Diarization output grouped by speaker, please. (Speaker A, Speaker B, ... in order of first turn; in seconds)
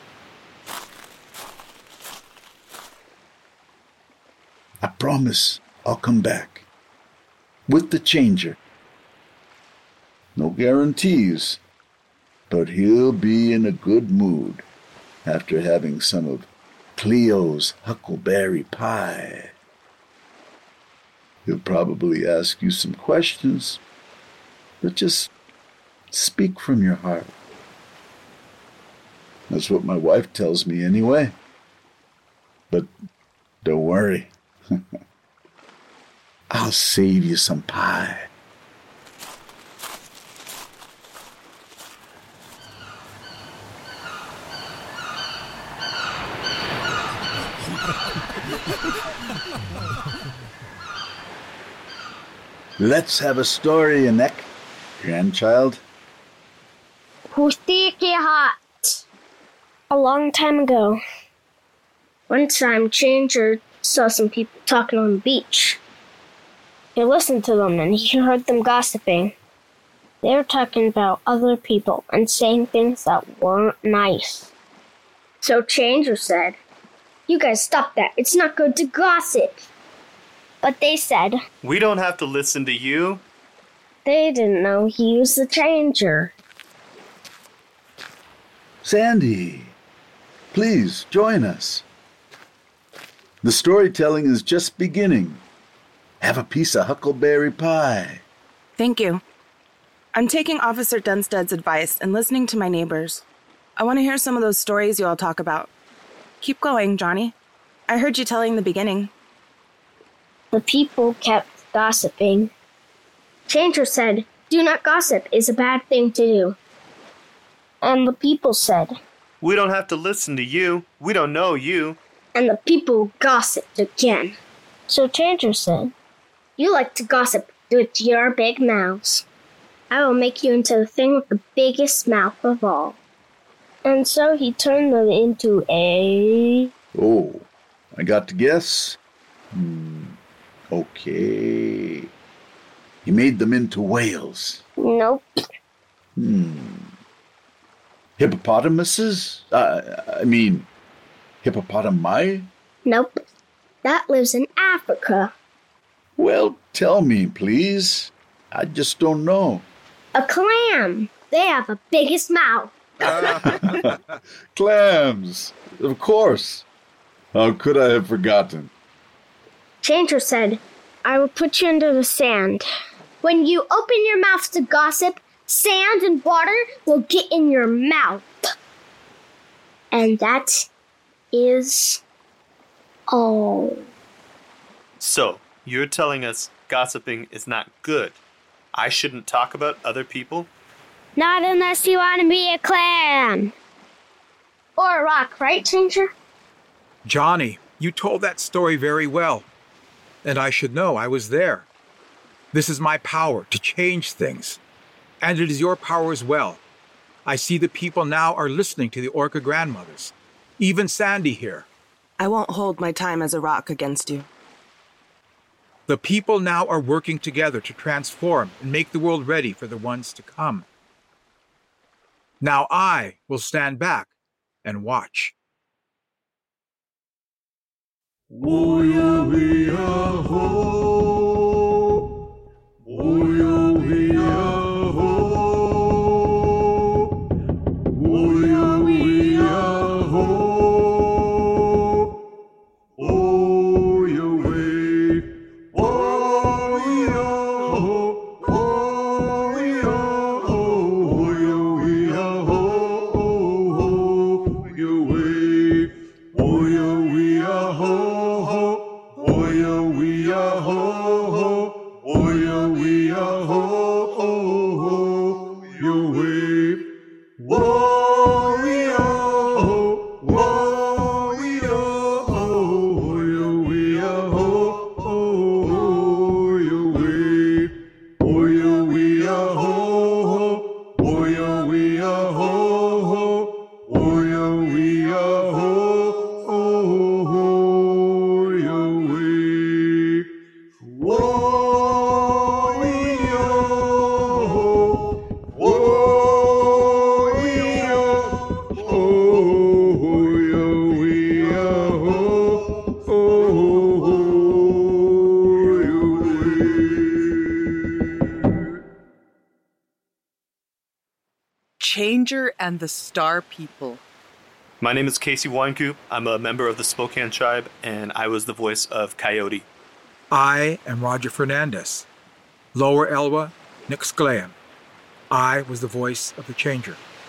Speaker A: 4.8-6.6, 7.7-8.6, 10.3-11.6, 12.5-14.6, 15.2-19.5, 21.4-23.8, 24.8-25.3, 26.1-27.3, 29.5-31.4, 33.6-34.8, 36.5-38.3, 52.8-55.8, 88.8-89.7, 90.5-91.8, 93.4-95.4, 96.2-98.2, 136.9-139.0, 139.5-140.2, 140.7-142.1, 143.0-144.6, 146.2-146.9, 148.2-150.7, 151.4-152.5, 156.2-159.7, 163.1-164.0, 164.5-166.6, 167.3-168.7
Speaker B: 57.3-59.0, 59.9-61.0, 62.3-65.8, 66.9-69.3, 70.2-74.5, 75.4-76.6, 77.3-79.7, 80.6-81.4, 84.0-86.3, 110.5-112.5, 113.5-116.6, 117.8-118.9, 122.3-124.4, 124.9-125.9, 126.6-129.2, 129.9-133.0, 133.8-136.7, 144.8-145.3, 152.8-153.2, 153.8-155.3, 160.1-163.6, 169.8-172.6, 173.2-178.3, 179.9-180.7, 181.3-182.0, 183.1-183.8, 191.2-193.5, 194.8-196.1
Speaker C: 81.6-83.2, 119.4-122.0, 185.0-188.2, 188.7-190.5, 314.8-319.7
Speaker D: 98.8-99.2, 100.1-103.2, 103.8-105.7, 106.4-107.3, 107.9-109.1, 212.2-214.3
Speaker E: 163.1-163.8, 197.0-199.5, 200.2-201.7, 202.5-204.6, 205.2-206.6, 207.2-211.7, 215.9-220.7, 222.4-224.1, 224.6-225.3, 238.6-239.8, 244.0-244.9, 245.8-247.8, 249.2-249.8, 251.2-252.2, 254.8-255.7, 256.6-258.1, 260.0-260.7, 265.8-266.3, 268.2-268.7, 271.0-271.6, 320.3-322.1, 322.7-324.6, 325.3-327.0
Speaker F: 311.8-314.0